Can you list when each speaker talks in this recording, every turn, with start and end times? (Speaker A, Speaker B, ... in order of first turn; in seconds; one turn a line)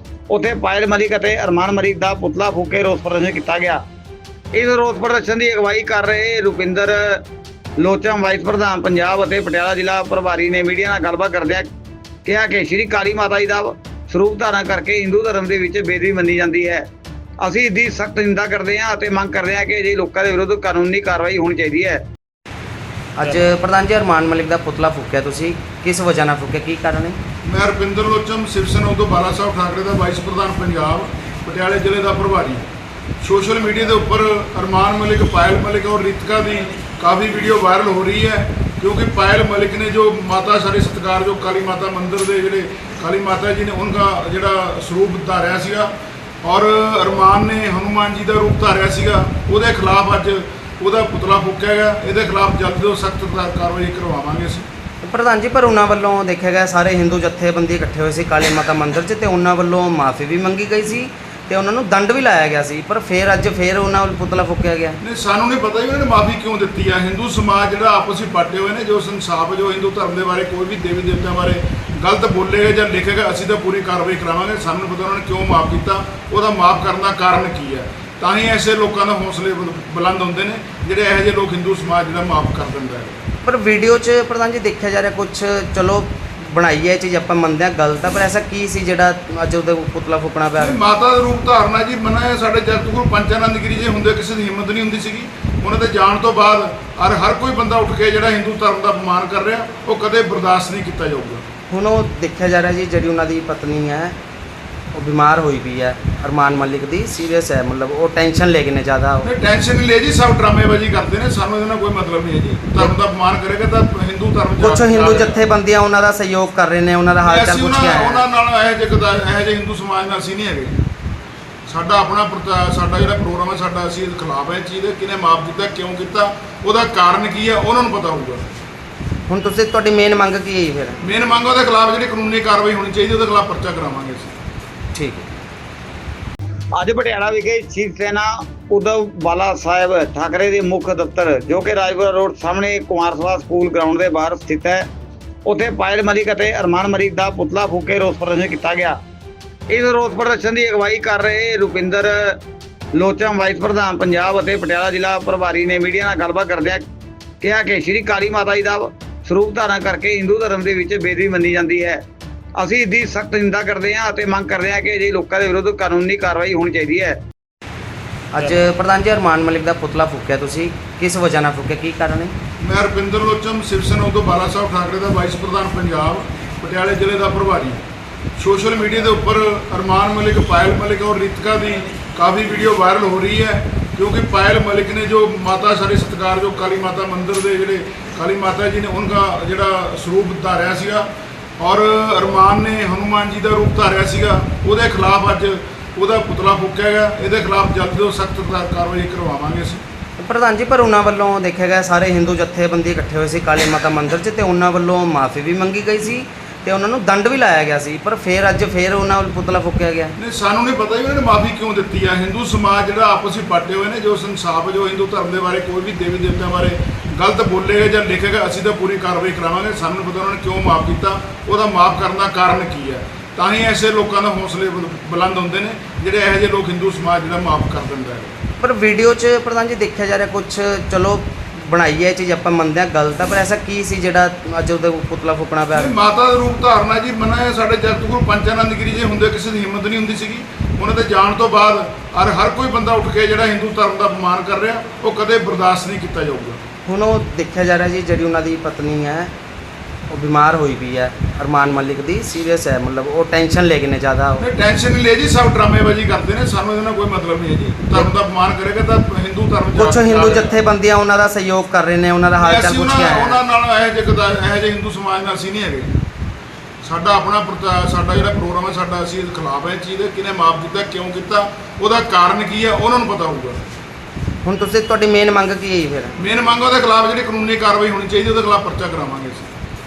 Speaker A: 0.3-3.8
Speaker A: 4.5-7.2
Speaker A: 7.8-11.7
Speaker A: 12.2-16.9
Speaker A: 17.4-22.0
Speaker B: 23.2-27.2
Speaker C: 27.4-32.7
Speaker C: 33.2-45.9
Speaker C: 46.4-54.7
Speaker B: 55.0-65.0
Speaker C: 65.0-83.2
Speaker B: 83.4-90.8
Speaker C: 90.6-101.5
Speaker B: 101.7-104.2
Speaker B: 104.9-109.3
Speaker C: 109.2-115.4
Speaker B: 114.6-118.2
Speaker C: 117.2-120.8
Speaker C: 121.7-128.4
Speaker B: 129.3-131.0
Speaker C: 131.0-134.3
Speaker B: 134.9-135.3
Speaker A: 136.8-144.9
Speaker A: 145.5-149.0
Speaker A: 149.7-152.4
Speaker A: 153.0-156.8
Speaker A: 157.4-162.0
Speaker A: 162.6-167.2
Speaker B: 168.3-172.3
Speaker C: 172.6-177.8
Speaker C: 178.4-199.8
Speaker B: 200.2-210.2
Speaker C: 210.2-228.4
Speaker B: 228.6-235.9
Speaker C: 235.7-246.6
Speaker B: 246.9-249.3
Speaker B: 250.1-254.4
Speaker C: 254.4-260.6
Speaker B: 259.8-263.4
Speaker C: 262.4-265.9
Speaker C: 266.8-273.6
Speaker B: 274.4-276.2
Speaker C: 276.2-279.5